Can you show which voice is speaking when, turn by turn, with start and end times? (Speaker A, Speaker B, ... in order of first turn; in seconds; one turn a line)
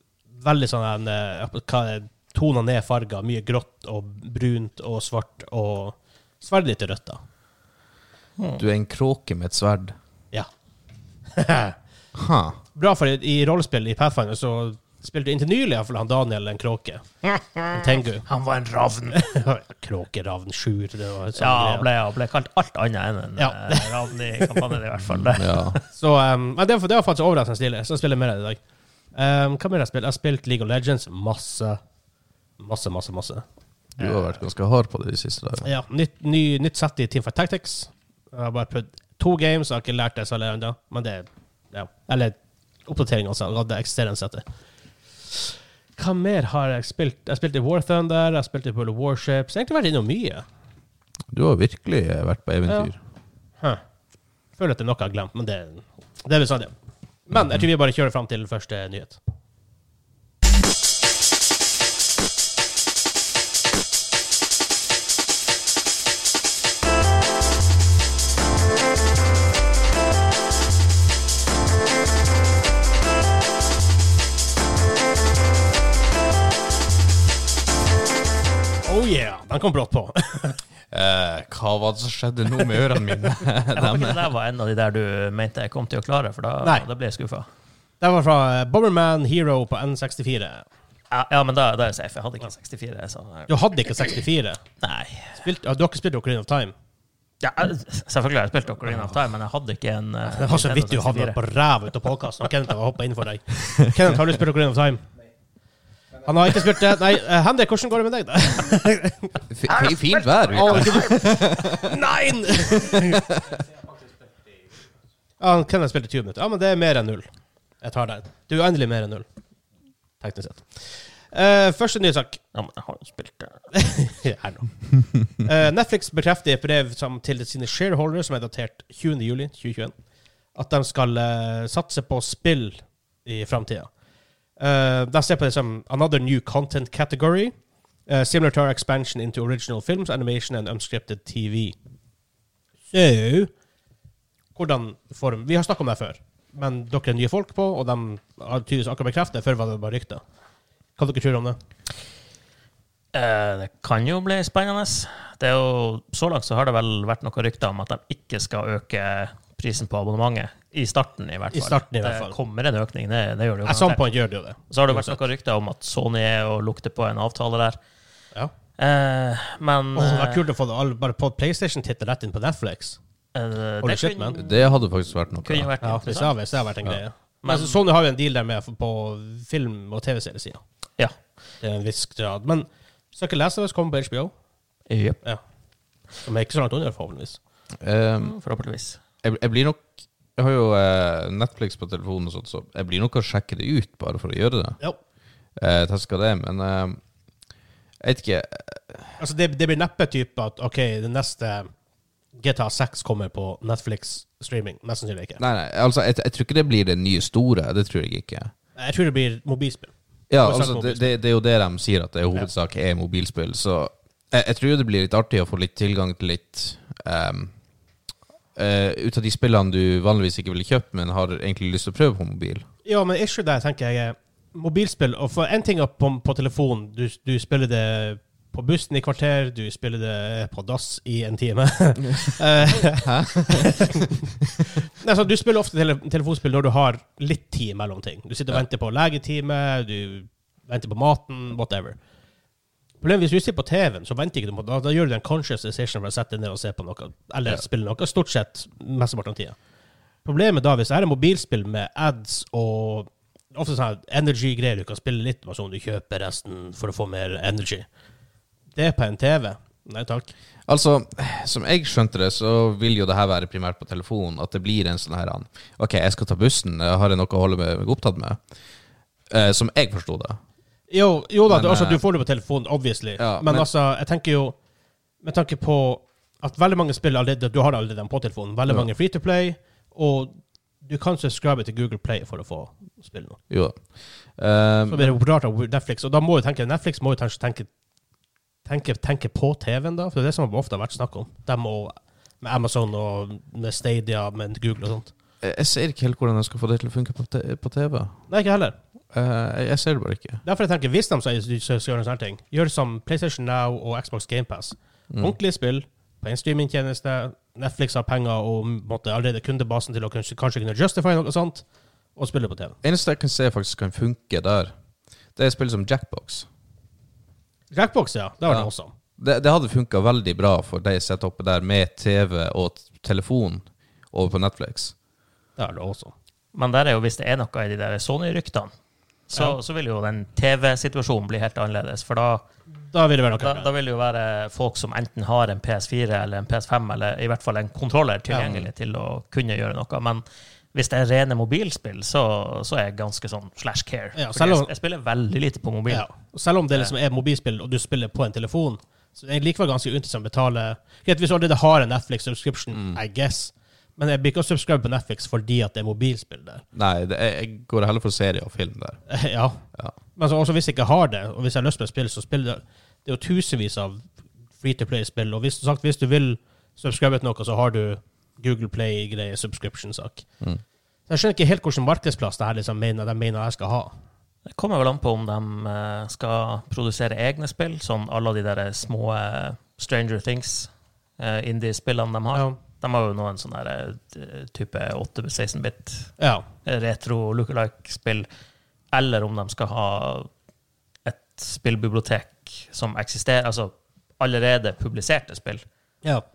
Speaker A: 0.3-7.2
Speaker B: 8.6-9.9
Speaker A: 11.3-11.8
Speaker B: 12.1-12.6
Speaker A: 12.7-17.0
Speaker C: 17.2-19.3
Speaker A: 17.7-18.2
Speaker A: 19.1-21.9
Speaker C: 21.4-25.8
Speaker A: 23.4-24.7
Speaker B: 25.3-25.8
Speaker A: 25.9-28.6
Speaker A: 29.1-31.8
Speaker A: 32.6-33.4
Speaker B: 34.0-35.7
Speaker A: 34.0-34.4
Speaker A: 35.6-44.4
Speaker A: 46.0-50.4
Speaker B: 51.3-53.0
Speaker A: 54.6-56.7
Speaker A: 57.3-59.2
Speaker A: 78.8-80.6
Speaker B: 80.9-84.3
Speaker C: 83.7-87.5
Speaker A: 88.0-90.6
Speaker C: 91.1-94.1
Speaker A: 93.5-94.6
Speaker C: 94.8-95.4
Speaker A: 95.3-96.7
Speaker C: 97.4-101.4
Speaker A: 100.2-105.0
Speaker A: 106.2-113.3
Speaker B: 109.5-112.0
Speaker C: 110.6-111.0
Speaker B: 112.7-113.5
Speaker A: 115.4-117.2
Speaker A: 117.8-119.2
Speaker A: 120.2-122.4
Speaker C: 122.5-123.6
Speaker A: 123.7-124.8
Speaker A: 125.3-129.9
Speaker A: 130.5-133.9
Speaker A: 134.6-137.5
Speaker A: 138.1-141.8
Speaker A: 142.9-143.5
Speaker A: 144.5-150.2
Speaker A: 151.0-151.6
Speaker C: 153.1-164.1
Speaker A: 161.5-162.3
Speaker A: 163.6-165.2
Speaker C: 164.7-167.8
Speaker C: 168.8-170.4
Speaker A: 169.9-173.0
Speaker C: 173.3-174.5
Speaker A: 173.8-174.4
Speaker B: 174.4-175.7
Speaker C: 175.4-176.5
Speaker A: 175.8-180.6
Speaker C: 177.4-177.8
Speaker A: 181.6-184.3
Speaker C: 184.9-185.2
Speaker A: 186.2-187.4
Speaker B: 187.8-188.3
Speaker C: 188.2-189.0
Speaker B: 189.2-194.8
Speaker B: 195.6-197.0
Speaker B: 198.0-199.2
Speaker A: 199.2-201.7
Speaker A: 202.3-205.4
Speaker B: 205.4-208.5
Speaker A: 208.8-211.1
Speaker B: 210.3-217.5
Speaker B: 218.6-222.7
Speaker A: 222.8-242.0
Speaker B: 232.9-233.8
Speaker A: 243.0-249.6
Speaker A: 250.2-257.9
Speaker A: 258.8-260.3
Speaker B: 260.7-268.4
Speaker B: 269.3-270.4
Speaker A: 270.9-274.6
Speaker B: 271.5-272.0
Speaker B: 273.2-273.7
Speaker A: 275.2-283.4
Speaker B: 283.5-285.2
Speaker A: 284.9-287.7
Speaker A: 288.6-295.1
Speaker B: 295.4-298.2
Speaker A: 298.3-298.8
Speaker B: 299.1-300.4
Speaker A: 300.4-311.6
Speaker A: 312.1-312.8
Speaker B: 312.8-314.7
Speaker B: 315.4-316.5
Speaker A: 317.7-318.9
Speaker B: 318.5-324.9
Speaker A: 325.6-326.1
Speaker C: 326.5-328.7
Speaker C: 329.3-332.4
Speaker A: 332.9-333.7
Speaker C: 333.4-346.1
Speaker A: 338.3-338.6
Speaker A: 344.1-344.7
Speaker A: 345.9-356.6
Speaker B: 352.7-353.0
Speaker B: 356.7-359.0
Speaker A: 359.1-359.6
Speaker A: 360.1-364.1
Speaker A: 364.6-370.2
Speaker A: 371.1-373.9
Speaker C: 374.4-386.1
Speaker A: 386.2-386.4
Speaker C: 386.6-388.3
Speaker C: 388.9-390.3
Speaker C: 391.0-395.6